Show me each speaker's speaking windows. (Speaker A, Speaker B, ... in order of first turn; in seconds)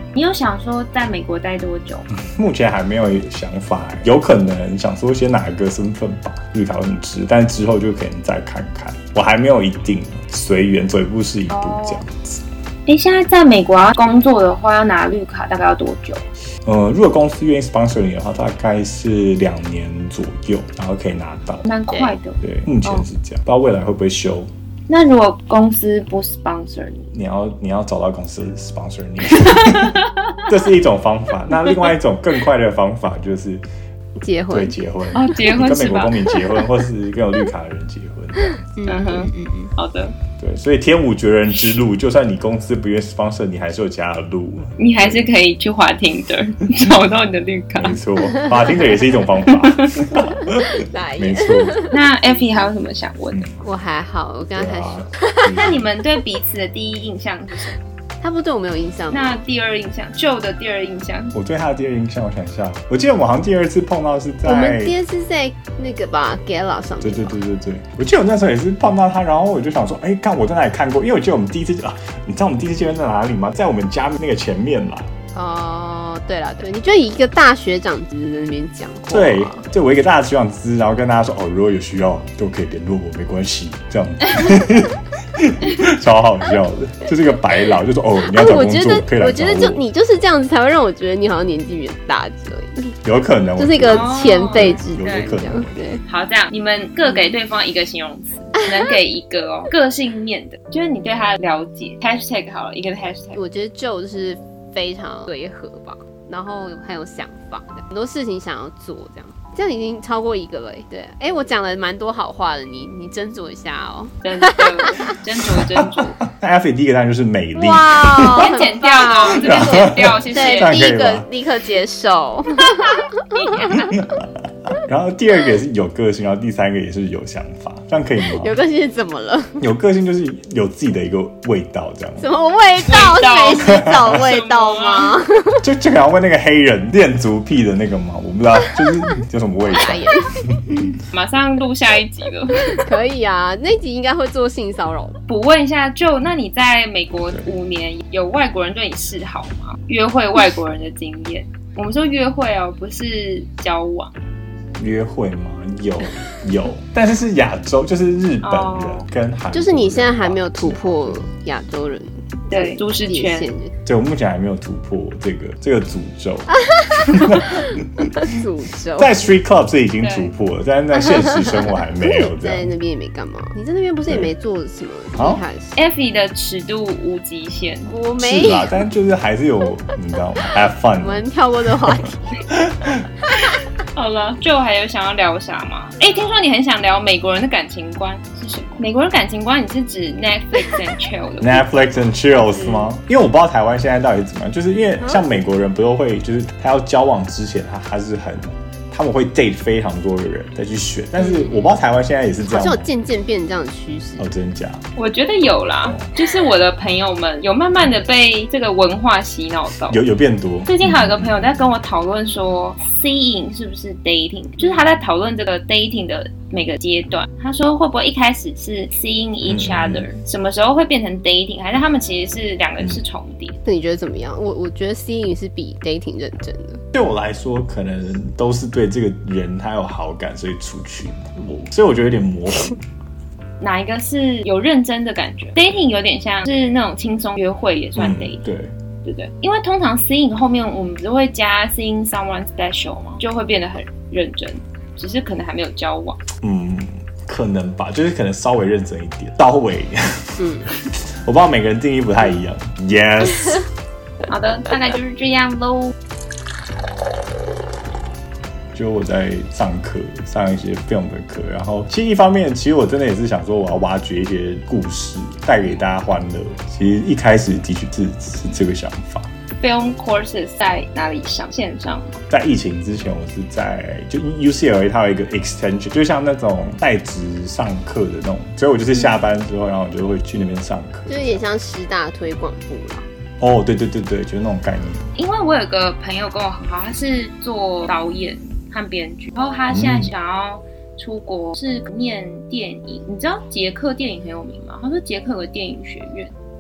Speaker A: 0.1-2.1, 11.5-12.0, 12.9-16.2, 21.6-23.1, 24.9-27.1, 29.4-30.4, 35.1-36.3, 38.9-40.1, 44.8-48.0, 49.5-50.2, 51.9-53.5, 55.5-57.8, 59.1-61.3, 93.9-95.4, 96.1-103.4, 114.2-116.2, 118.3-120.8, 122.6-124.0, 132.8-135.2, 141.1-142.9, 145.3-154.1, 158.4-159.1, 162.5-163.5, 170.0-170.3, 175.8-178.0, 183.9-191.7, 205.0-210.0, 210.7-223.6, 233.6-238.4, 239.0-246.2, 254.3-255.9, 269.6-272.2, 285.2-296.3
Speaker B: 2.1-12.4, 16.6-21.7, 22.4-24.5, 27.1-33.6, 34.5-38.6, 40.4-45.3, 47.7-50.7, 51.2-51.8, 53.3-53.6, 54.5-55.9, 61.3-65.0, 67.0-75.1, 79.1-89.8, 93.0-95.8, 116.3-118.5, 119.3-121.3, 123.9-124.3, 124.8-128.6, 129.6-132.3, 135.6-140.9, 154.8-161.2, 163.8-168.3, 169.0-172.7, 175.2-175.4, 178.2-181.7, 182.5-183.0, 191.4-202.9, 204.2-204.8, 205.9-206.1, 209.9-211.8, 219.4-220.1, 226.9-232.8, 238.0-238.7, 246.4-253.7, 258.7-269.3, 272.3-281.4, 283.4-285.1, 289.7-290.1
Speaker C: 34.2-34.8, 38.4-39.7, 50.1-52.7, 53.6-55.6, 58.2-59.4, 64.5-67.4, 75.3-79.7, 88.2-93.0, 93.6-96.0, 103.3-115.1, 117.5-123.0, 128.2-129.7, 132.2-135.6, 139.7-140.4, 142.7-145.2, 159.5-163.8, 168.2-169.2, 172.0-175.8, 177.9-178.8, 181.0-182.4, 186.1-186.4, 192.3-193.0, 195.0-195.4, 201.2-201.8, 202.4-204.3, 223.7-226.8, 250.4-250.7, 281.1-283.1